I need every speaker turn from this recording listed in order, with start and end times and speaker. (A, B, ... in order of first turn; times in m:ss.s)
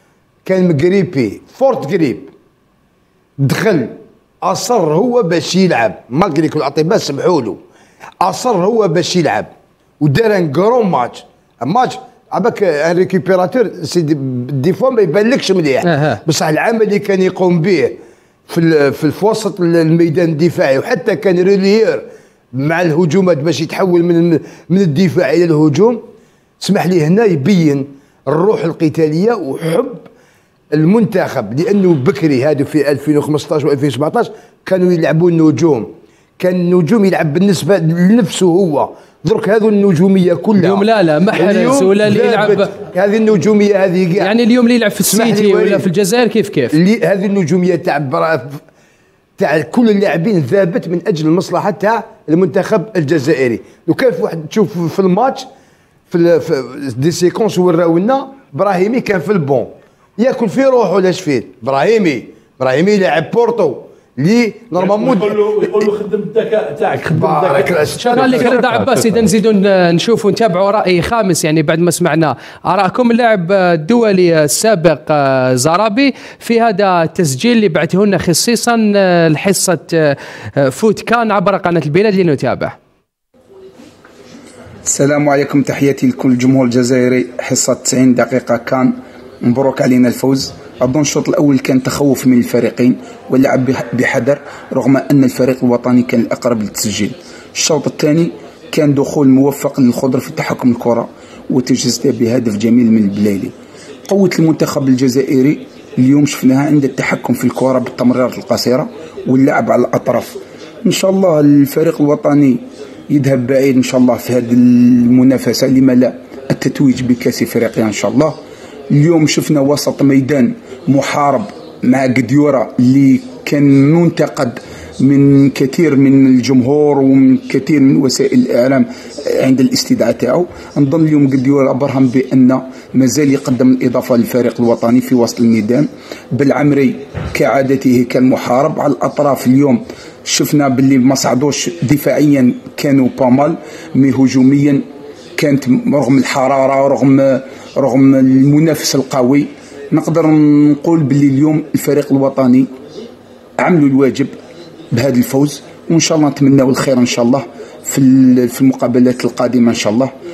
0:00.4-0:02.3 A
0:03.4-0:07.6 A
0:08.2-0:26.0 A
0:15.8-0:16.2 B
0:26.6-0:30.0 A
0:30.7-0:44.4 A
0:40.6-0:42.7 B
0:44.2-0:46.8 B
0:45.0-0:45.9 A
0:46.7-0:48.6 A
0:49.4-0:55.5 A
0:56.1-1:05.9 A
1:04.7-1:09.0 C
1:07.0-1:09.0 A
1:08.0-1:22.7 B
1:24.8-1:43.5 D
1:44.1-1:58.4 D
1:58.9-2:24.8 D
2:25.4-2:32.7 D
2:33.6-2:34.3 D
2:34.9-2:40.1 D